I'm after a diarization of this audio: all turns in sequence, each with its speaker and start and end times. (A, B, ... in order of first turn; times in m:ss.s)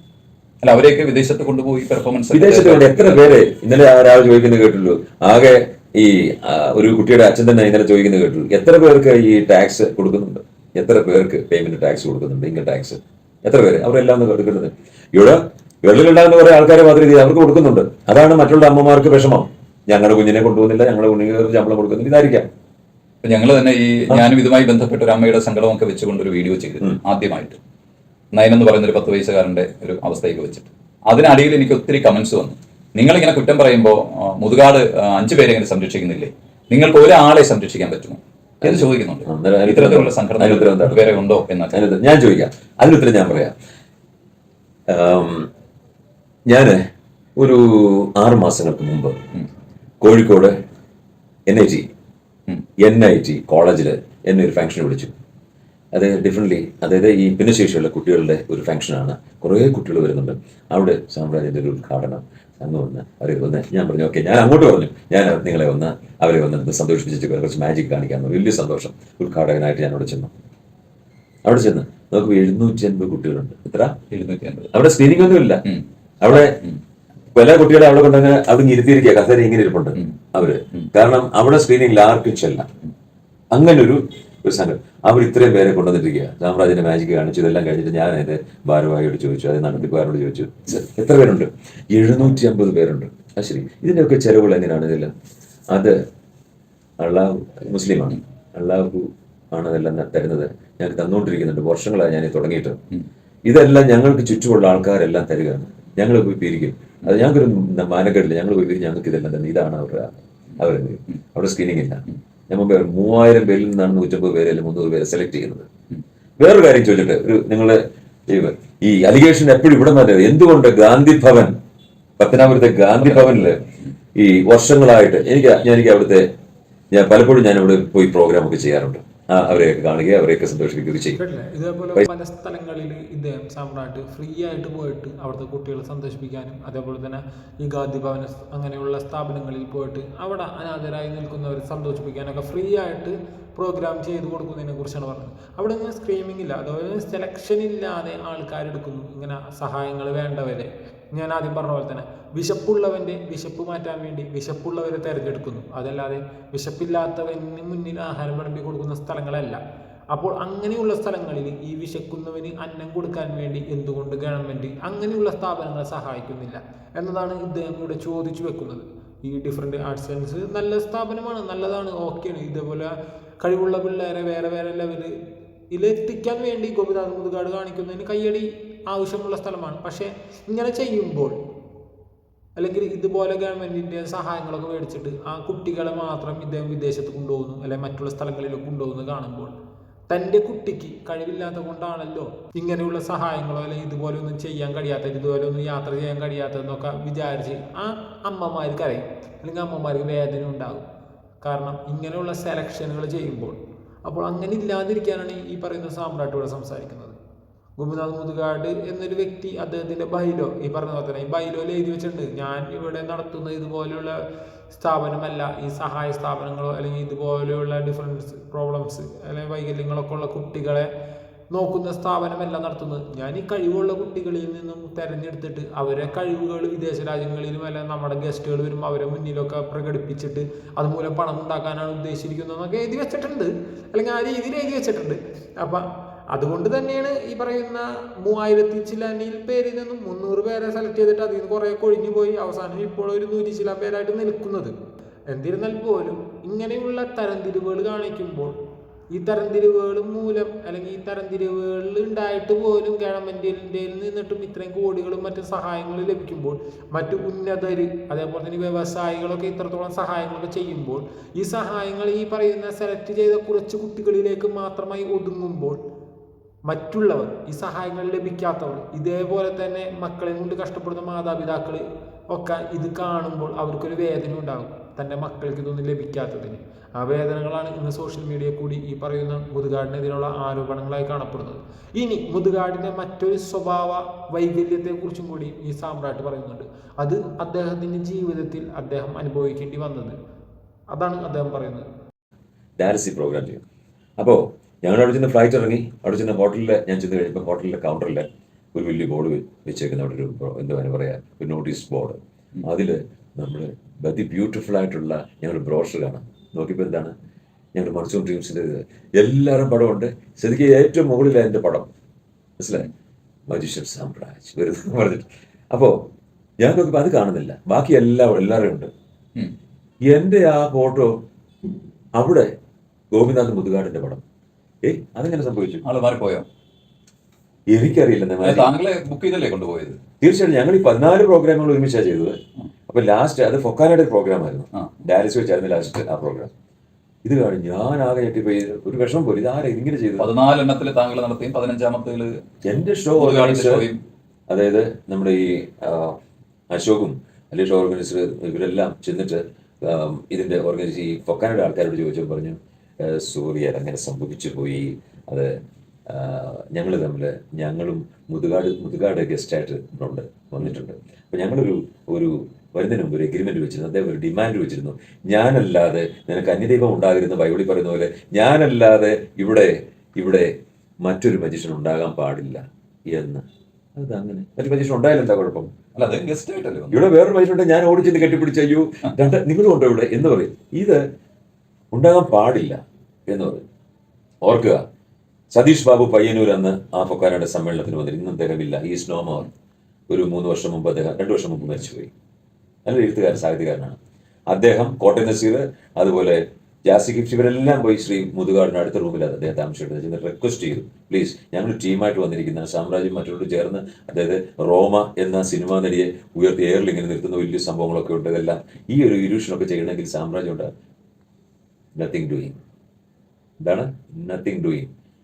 0:00.6-0:03.3 A
0:02.3-0:22.5 B
0:23.2-0:27.6 A
0:28.3-0:41.8 A
0:38.6-0:41.2 B
0:41.7-0:43.6 B
0:44.9-0:45.5 B
0:46.5-0:49.3 B
0:50.0-0:50.6 B
0:51.5-0:51.9 B
0:52.8-0:55.1 B
0:55.9-1:10.3 B
1:11.4-1:14.0 B
1:14.1-1:14.7 A
1:14.7-1:15.6 B
1:16.2-1:16.6 B
1:16.3-1:16.8 A
1:17.3-1:22.7 B
1:23.5-1:35.1 B
1:35.7-1:36.0 B
1:37.0-1:42.8 B
1:43.5-1:55.7 B
1:56.4-2:01.6 B
2:02.2-2:03.6 B
2:04.2-2:06.3 B
2:06.9-2:11.2 B
2:11.2-2:39.6 C
2:40.1-2:55.1 C
2:55.7-3:01.3 C
3:02.6-3:09.5 C
3:10.1-3:20.9 C
3:21.4-3:27.2 C
3:27.8-3:34.2 C
3:34.7-3:40.9 C
3:41.5-4:04.7 C
4:05.3-4:08.5 C
4:09.1-4:25.8 C
4:26.7-4:50.2 C
4:50.9-4:51.9 C
4:52.8-4:53.6 B
4:54.2-5:07.1 B
5:07.8-5:11.9 B
5:12.6-5:12.9 B
5:13.5-5:16.0 B
5:16.6-5:18.9 B
5:20.0-5:21.2 B
5:22.2-5:22.5 B
5:23.1-5:24.2 B
5:24.8-5:25.8 B
5:25.8-5:26.4 A
5:27.7-5:28.7 B
5:28.4-5:30.0 A
5:30.2-5:36.5 B
5:37.2-5:40.3 B
5:40.2-5:42.4 A
5:42.6-5:43.8 B
5:43.2-5:44.0 A
5:44.5-5:46.2 B
5:46.7-5:55.6 B
5:56.1-6:15.7 B
6:16.0-6:17.0 A
6:16.9-6:21.0 B
6:21.9-6:23.6 B
6:24.4-6:24.8 B
6:25.5-6:29.5 B
6:30.1-6:32.1 B
6:32.9-6:34.0 B
6:34.5-6:50.7 B
6:52.0-6:52.6 B
6:53.6-6:54.9 B